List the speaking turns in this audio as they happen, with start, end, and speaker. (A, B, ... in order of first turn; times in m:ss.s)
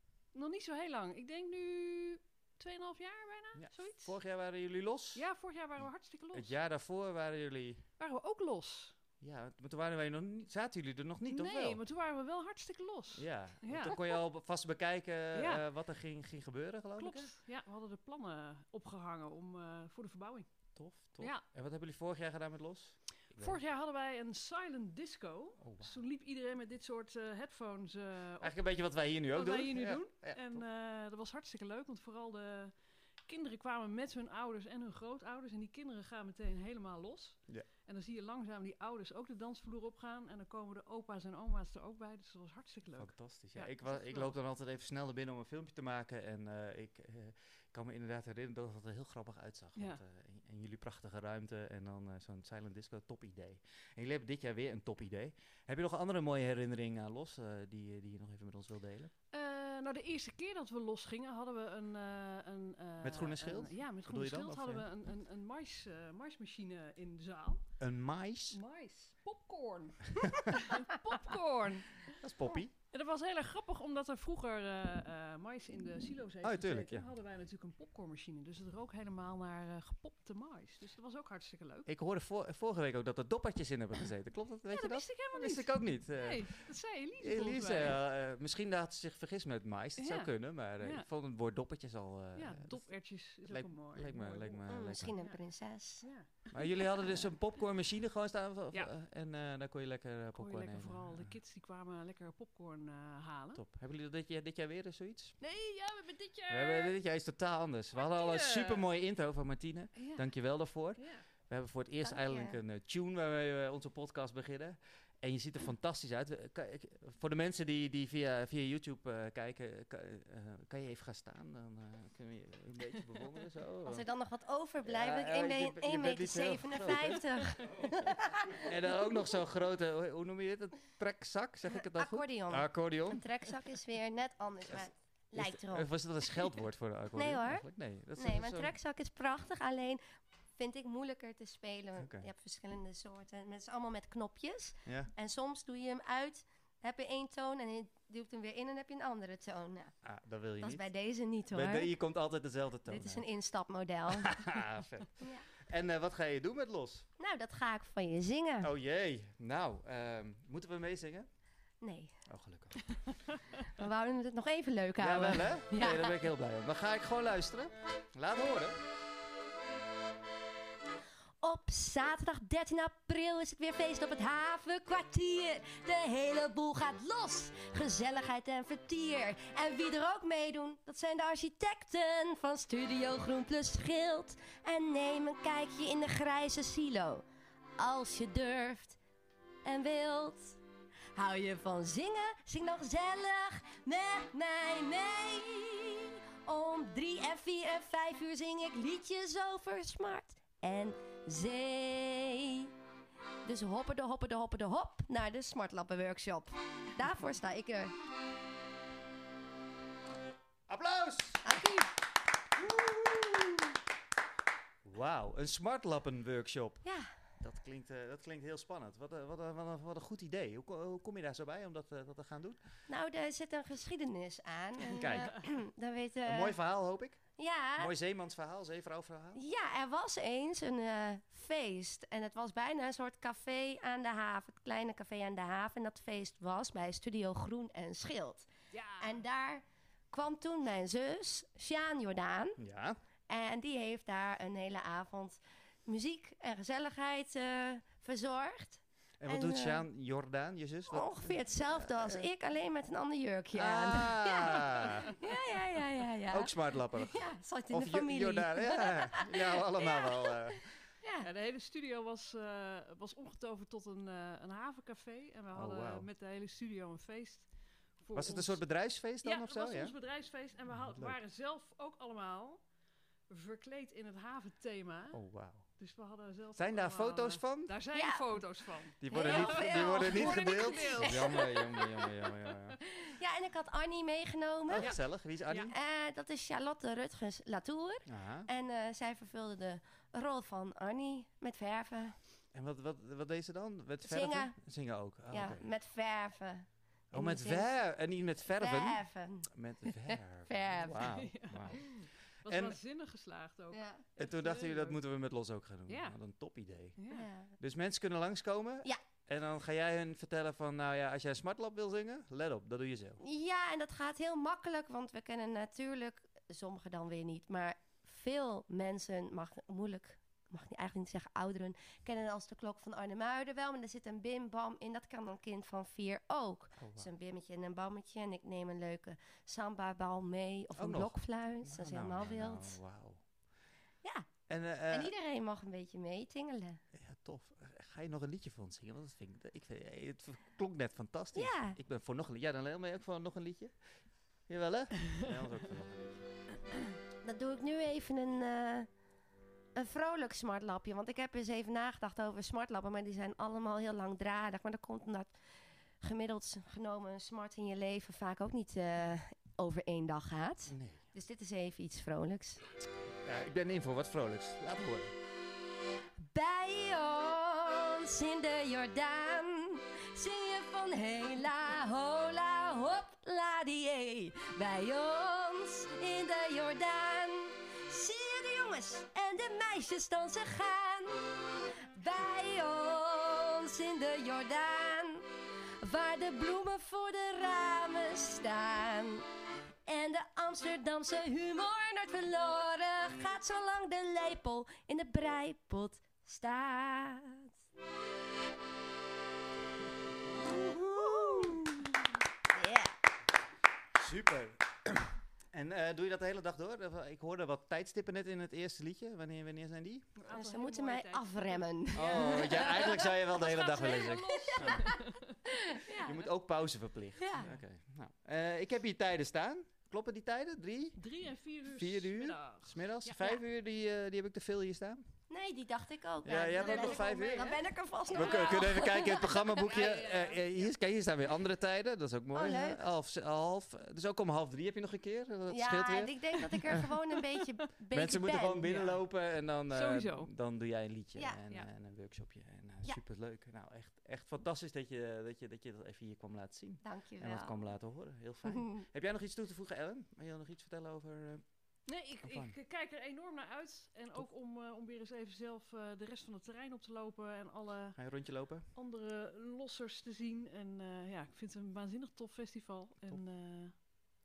0:00.3-0:04.2 A
0:03.6-0:05.2 B
0:05.1-0:06.6 A
0:06.3-0:07.8 B
0:08.0-0:08.9 A
0:09.2-0:11.8 B
0:11.2-0:14.2 A
0:13.1-0:17.3 B
0:15.3-0:15.6 A
0:17.0-0:20.5 A
0:20.8-0:23.6 B
0:23.4-0:28.6 A
0:25.6-0:26.0 B
0:28.4-0:30.6 B
0:29.3-0:32.7 A
0:33.3-0:44.4 A
0:43.0-0:59.1 B
0:49.8-0:50.0 A
0:59.3-1:07.6 A
1:03.0-1:04.8 B
1:07.8-1:08.6 B
1:08.5-1:21.9 A
1:12.2-1:12.7 B
1:16.4-1:17.1 B
1:21.9-1:26.6 B
1:24.7-1:28.0 A
1:27.2-1:32.9 B
1:30.0-1:31.1 A
1:32.3-1:35.4 A
1:33.4-1:35.1 B
1:34.7-1:36.0 C
1:36.0-1:37.2 A
1:36.5-1:41.3 B
1:40.4-1:43.6 A
1:43.6-1:45.4 B
1:45.4-1:46.9 A
1:46.5-2:04.0 B
1:47.9-1:48.9 A
1:50.0-1:50.2 A
1:51.0-1:51.2 A
1:52.0-1:52.6 C
2:03.8-2:08.6 C
2:04.8-2:07.2 B
2:08.6-2:13.2 B
2:11.7-2:15.9 C
2:15.4-2:18.7 B
2:17.1-2:20.0 C
2:20.6-2:29.9 C
2:22.0-2:22.3 B
2:24.8-2:25.1 B
2:30.0-2:30.8 B
2:30.6-2:32.0 C
2:31.5-2:33.2 B
2:32.9-2:34.4 C
2:34.2-2:37.0 B
2:37.2-2:38.7 C
2:38.6-2:41.3 B
2:41.8-2:42.1 C
2:42.3-2:43.0 B
2:43.6-2:46.2 C
2:45.0-2:48.8 B
2:51.4-3:07.2 C
3:07.8-3:09.0 C
3:09.6-3:10.6 C
3:11.1-3:22.7 C
3:23.4-3:27.9 C
3:30.7-3:31.5 B
3:31.4-3:31.9 C
3:32.7-3:33.5 B
3:34.8-3:36.8 B
3:36.8-3:37.1 C
3:37.4-3:42.6 B
3:42.9-3:46.6 C
3:45.0-3:45.3 B
3:46.2-3:47.2 B
3:47.4-3:47.9 C
3:47.8-3:49.4 B
3:49.4-4:02.6 C
3:58.7-3:59.2 A
4:02.6-4:03.0 B
4:03.3-4:09.8 C
4:09.2-4:12.2 B
4:10.9-4:20.5 C
4:13.6-4:15.1 B
4:16.3-4:20.6 B
4:21.0-4:21.3 C
4:21.2-4:28.6 A
4:25.5-4:26.1 B
4:28.1-4:29.9 B
4:29.2-4:32.6 A
4:30.8-4:31.2 B
4:33.3-4:35.2 A
4:35.1-4:35.6 B
4:35.8-4:42.1 A
4:36.6-4:37.8 B
4:37.9-4:38.3 C
4:39.0-4:42.8 B
4:39.1-4:41.6 C
4:42.9-4:45.0 C
4:44.7-4:45.7 B
4:44.8-4:45.7 A
4:45.6-4:52.1 C
4:48.0-4:48.5 B
4:52.5-4:55.7 B
4:54.0-4:54.5 C
4:55.3-4:57.7 C
4:57.1-4:59.0 B
4:58.6-4:59.5 C
4:59.5-5:01.9 B
5:00.0-5:01.2 C
5:01.0-5:05.0 A
5:02.4-5:02.8 B
5:03.7-5:04.0 C
5:04.2-5:07.0 B
5:05.9-5:06.2 A
5:07.0-5:07.3 A
5:07.1-5:07.5 C
5:07.6-5:13.2 B
5:13.2-5:32.8 C
5:26.8-5:27.1 B
5:30.8-5:33.2 B
5:34.0-5:34.3 C
5:34.5-5:35.1 B
5:34.9-5:36.8 C
5:36.9-5:43.7 B
5:41.3-5:41.8 C
5:44.5-5:46.3 B
5:47.2-5:48.9 C
5:49.8-5:55.3 C
5:56.0-6:02.6 C
6:00.7-6:01.0 B
6:03.2-6:05.1 B
6:06.2-6:21.2 C
6:21.9-6:25.2 C
6:25.8-6:29.2 C
6:29.8-6:37.5 C
6:40.5-6:41.9 C
6:42.5-6:42.9 C
6:44.0-6:50.1 B
6:50.2-6:55.3 A
6:50.3-6:53.2 C
6:51.9-6:54.8 B
6:53.8-6:56.3 C
6:56.0-7:01.0 B
6:57.2-6:57.5 C
7:01.0-7:03.3 A
7:01.7-7:05.0 B
7:05.3-7:09.4 C
7:06.2-7:07.6 B
7:06.6-7:07.5 A
7:08.1-7:08.6 A
7:08.1-7:16.4 B
7:09.2-7:10.7 A
7:12.3-7:12.8 C
7:15.5-7:18.7 C
7:17.9-7:31.4 B
7:18.6-7:19.0 A
7:19.7-7:20.3 A
7:26.8-7:27.6 C
7:31.9-7:38.0 A
7:32.2-7:32.6 B
7:38.0-7:38.6 B
7:38.7-7:43.7 A